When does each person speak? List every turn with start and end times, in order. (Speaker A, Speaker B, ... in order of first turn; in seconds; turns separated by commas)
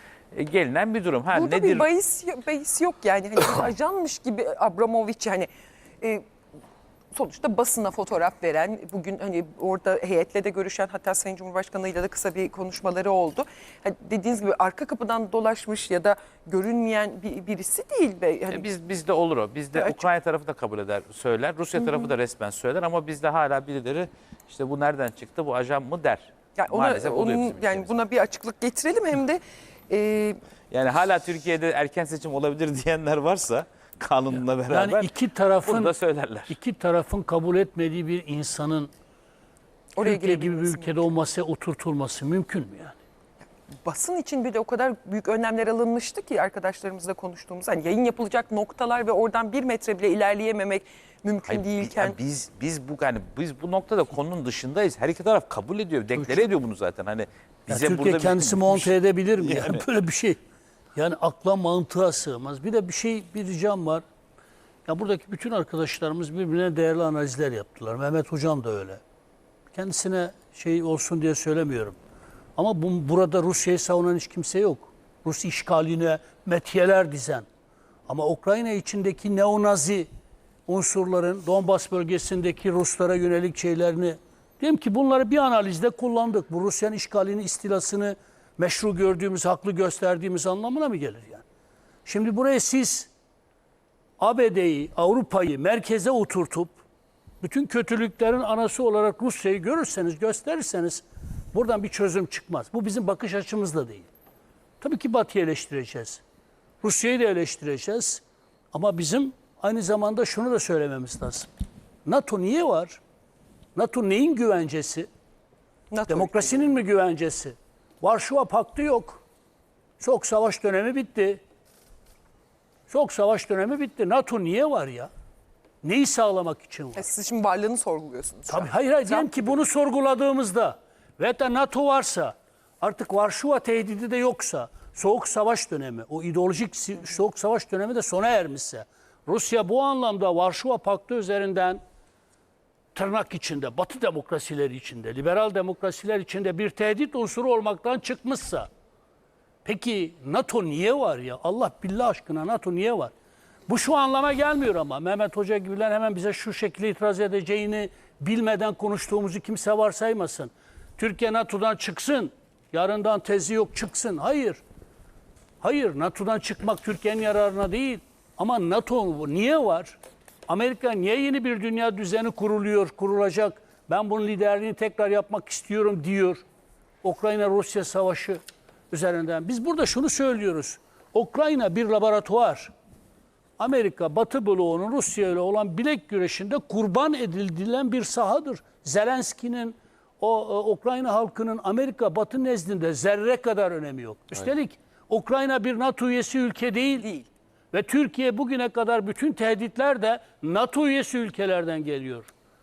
Speaker A: 0.3-1.9, Speaker B: 1.3-5.5, Speaker B: 7.1-18.6, Speaker A: 18.5-27.9, Speaker B: 19.7-20.1, Speaker B: 21.8-22.1, Speaker B: 26.6-30.4, Speaker A: 30.7-35.1, Speaker C: 34.7-35.9, Speaker A: 35.6-36.5, Speaker C: 36.5-38.9, Speaker B: 40.0-41.1, Speaker C: 40.0-43.0, Speaker B: 43.8-52.2, Speaker A: 51.5-59.8, Speaker C: 56.1-56.4, Speaker C: 57.7-60.4, Speaker C: 60.9-64.0, Speaker C: 64.8-69.0, Speaker C: 69.7-72.0, Speaker C: 72.5-77.5, Speaker C: 78.1-80.1, Speaker C: 80.7-91.4, Speaker C: 92.0-93.1, Speaker C: 94.2-96.8, Speaker C: 97.4-104.1, Speaker C: 104.8-106.2, Speaker C: 106.8-111.5, Speaker C: 112.0-113.0, Speaker C: 113.7-115.1, Speaker B: 115.9-116.7, Speaker C: 116.1-119.2, Speaker C: 120.0-121.4, Speaker C: 122.9-125.1, Speaker C: 125.8-127.0, Speaker B: 126.9-129.5, Speaker C: 128.5-141.8, Speaker C: 142.9-148.7, Speaker C: 149.6-153.1, Speaker C: 153.7-164.6, Speaker C: 165.6-176.4, Speaker C: 177.0-178.4, Speaker C: 178.9-182.7, Speaker C: 183.6-197.1, Speaker B: 197.0-197.3, Speaker C: 197.7-202.3